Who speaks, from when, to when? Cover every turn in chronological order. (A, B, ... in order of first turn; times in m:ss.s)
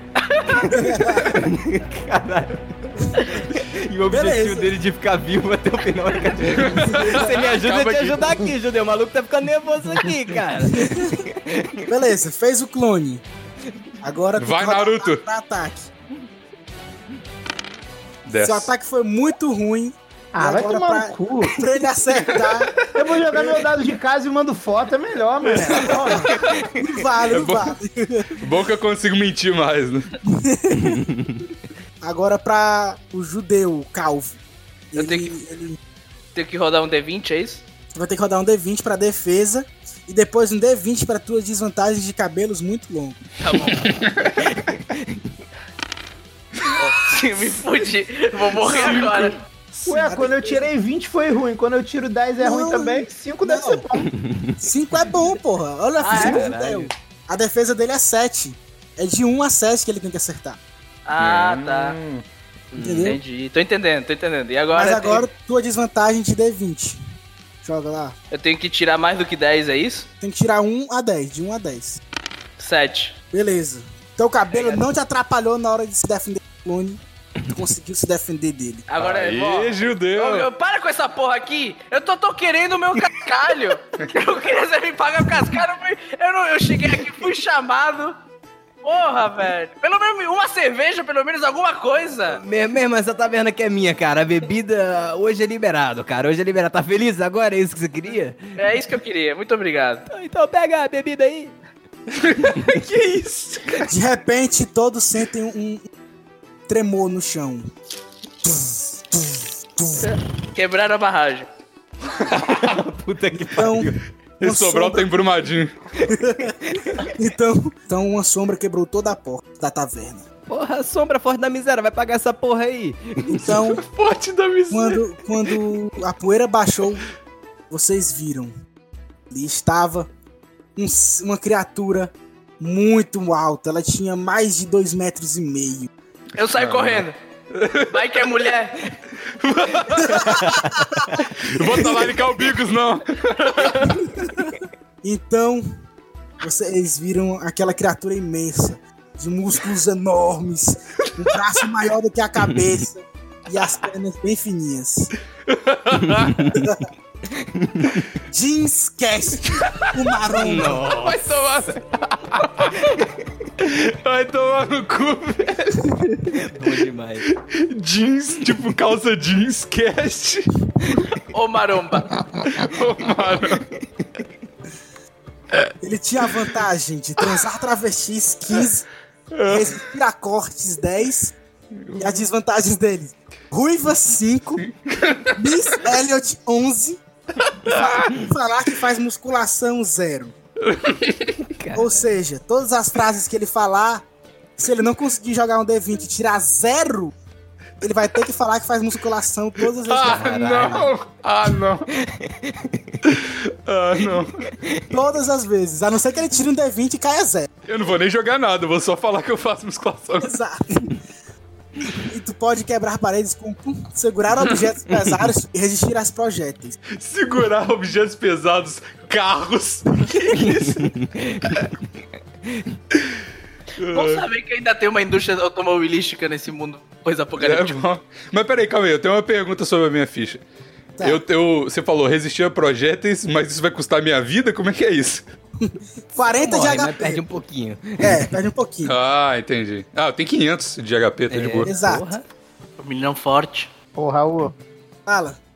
0:00.2-0:00.7 A
0:00.7-0:01.4 B
0:01.2-0:11.9 C
0:04.1-0:04.7 B
0:06.5-0:08.5 D
0:10.7-0:11.2 B
0:11.9-0:13.2 B
0:14.0-0:15.9 B
0:14.4-0:15.2 D
0:18.2-0:18.7 D
0:18.4-0:22.7 B
0:20.3-0:21.8 E
0:22.3-0:22.9 D
0:22.9-0:26.4 E
0:25.7-0:28.4 B
0:26.3-0:26.9 C
0:27.3-0:27.8 D
0:28.4-0:30.1 D
0:30.2-0:31.0 B
0:30.7-0:31.4 C
0:32.0-0:34.4 B
0:34.9-0:35.8 B
0:34.9-0:35.3 A
0:36.3-0:37.6 A
0:37.9-0:43.2 B
0:43.4-0:44.1 A
0:43.7-0:44.6 D
0:44.3-0:45.3 C
0:46.7-0:49.4 A
0:49.8-0:54.1 E
0:49.8-0:50.6 B
0:52.4-0:53.8 B
0:54.1-0:54.6 C
0:54.6-1:00.6 B
0:56.0-0:56.5 A
0:56.0-0:56.9 C
1:01.0-1:02.0 A
1:01.2-1:02.2 D
1:02.7-1:03.2 C
1:02.8-1:03.2 B
1:03.0-1:05.2 A
1:04.7-1:07.0 B
1:07.6-1:08.1 B
1:08.3-1:10.1 A
1:10.2-1:12.0 B
1:12.6-1:13.1 A
1:13.3-1:18.8 B
1:14.5-1:14.8 A
1:18.9-1:28.2 A
1:19.0-1:20.5 D
1:28.8-1:32.4 A
1:32.3-1:38.6 C
1:38.6-1:40.0 A
1:40.1-1:41.5 C
1:42.1-1:43.8 D
1:42.4-1:42.9 C
1:43.9-1:45.9 B
1:46.7-1:47.7 B
1:48.4-1:50.1 B
1:50.0-1:51.5 A
1:52.2-1:52.7 D
1:52.3-1:54.0 C
1:53.5-1:55.2 B
1:54.4-1:55.7 D
1:56.0-1:57.1 C
1:56.1-2:00.2 B
2:00.5-2:03.6 C
2:03.3-2:03.8 B
2:03.5-2:05.0 D
2:04.7-2:07.0 B
2:07.7-2:08.5 B
2:09.3-2:10.1 B
2:10.8-2:15.9 B
2:16.4-2:17.2 A
2:16.5-2:18.1 D
2:17.9-2:18.9 A
2:19.2-2:24.0 D
2:20.1-2:21.2 C
2:23.4-2:23.9 A
2:25.0-2:25.6 B
2:26.4-2:35.1 B
2:31.0-2:31.3 D
2:35.4-2:36.4 D
2:36.0-2:36.7 C
2:36.5-2:36.9 B
2:37.3-2:38.1 C
2:38.2-2:40.8 B
2:39.5-2:39.9 D
2:40.2-2:41.4 C
2:41.0-2:42.9 D
2:43.6-2:46.4 D
2:46.2-2:47.3 C
2:47.3-2:50.6 D
2:51.1-2:52.2 A
2:52.4-2:53.6 D
2:53.6-2:54.2 C
2:55.8-2:58.9 B
2:59.3-2:59.8 D
2:59.4-3:01.3 B
3:01.8-3:02.2 D
3:02.0-3:04.6 B
3:04.6-3:05.4 D
3:05.4-3:07.0 B
3:07.4-3:08.2 D
3:07.6-3:10.3 B
3:10.6-3:11.4 D
3:11.4-3:12.1 C
3:11.7-3:14.0 B
3:14.6-3:17.1 B
3:17.8-3:20.7 B
3:19.8-3:21.9 D
3:20.0-3:20.9 C
3:21.9-3:23.0 C
3:23.0-3:24.5 D
3:24.4-3:24.9 C
3:24.9-3:27.5 B
3:27.6-3:30.3 D
3:30.2-3:30.9 B
3:32.0-3:36.8 B
3:36.9-3:40.9 D
3:40.3-3:41.7 C
3:42.4-3:42.7 C
3:43.8-3:44.2 D
3:43.9-3:47.8 A
3:47.4-3:50.4 D
3:51.0-3:51.2 B
3:51.0-3:55.2 D
3:55.6-3:57.2 B
3:56.2-3:58.3 C
3:58.0-3:59.0 B
3:58.8-4:01.7 D
4:01.3-4:02.2 C
4:01.6-4:02.1 B
4:02.8-4:03.7 A
4:03.9-4:04.5 E
4:05.0-4:05.4 B